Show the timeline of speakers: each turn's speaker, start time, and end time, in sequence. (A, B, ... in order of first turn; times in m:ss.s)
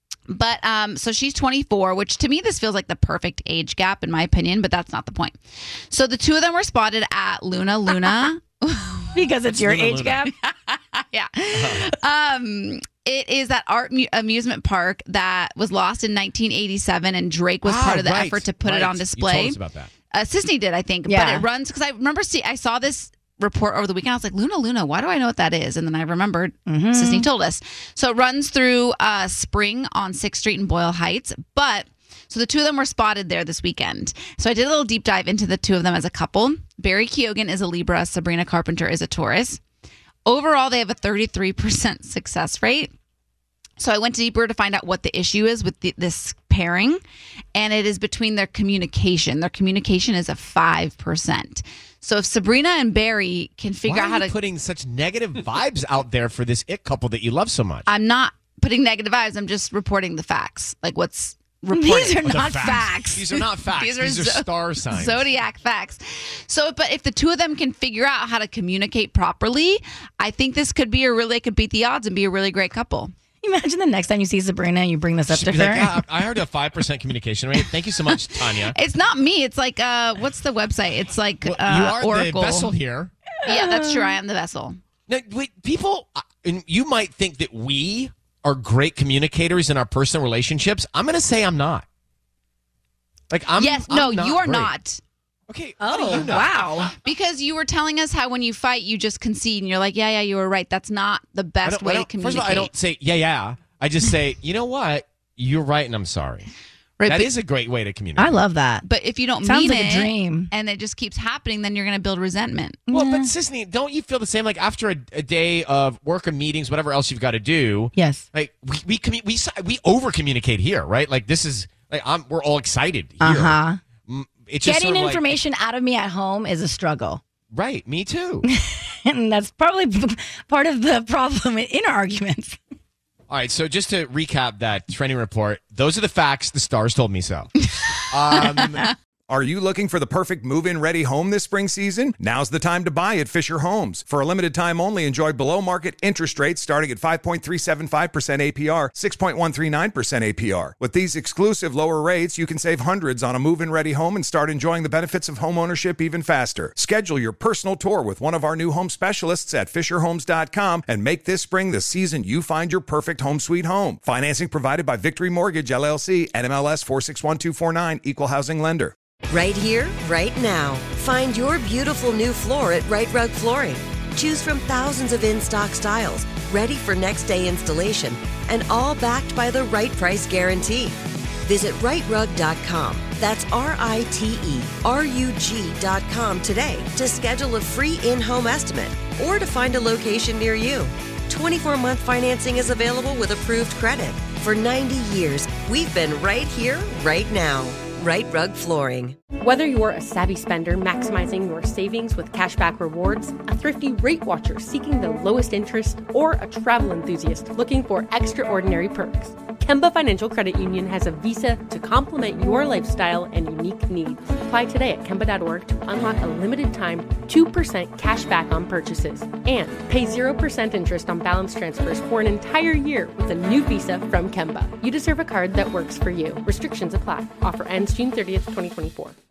0:00.3-0:09.2 A
0:09.1-0:10.3 B
0:09.5-0:10.2 C
0:10.3-0:19.6 A
0:11.5-0:11.9 C
0:17.6-0:19.9 C
0:20.1-0:39.6 A
0:21.0-0:21.5 B
0:26.7-0:27.3 B
0:40.2-0:42.9 A
0:43.8-0:47.0 A
0:47.5-0:54.3 A
0:53.8-0:57.9 C
0:57.9-1:13.1 A
1:01.7-1:02.9 B
1:02.2-1:05.3 C
1:13.4-1:16.0 B
1:15.3-1:18.7 C
1:18.6-1:22.7 A
1:21.4-1:23.1 C
1:23.4-1:24.2 B
1:23.4-1:24.8 A
1:25.1-1:31.8 C
1:33.3-1:34.7 C
1:33.6-1:35.0 A
1:35.5-1:36.9 C
1:35.8-1:36.9 B
1:36.1-1:42.7 A
1:41.6-1:46.5 C
1:47.0-1:47.3 A
1:47.0-1:48.4 C
1:48.2-1:50.5 B
1:48.8-1:52.8 A
1:52.9-1:53.3 B
1:52.9-2:05.4 C
1:58.0-1:58.2 B
2:03.2-2:03.8 B
2:04.6-2:07.2 B
2:07.5-2:08.4 C
2:08.4-2:12.6 B
2:13.3-2:18.9 C
2:19.3-2:48.9 D
2:49.3-3:19.1 E
3:19.4-3:49.1 F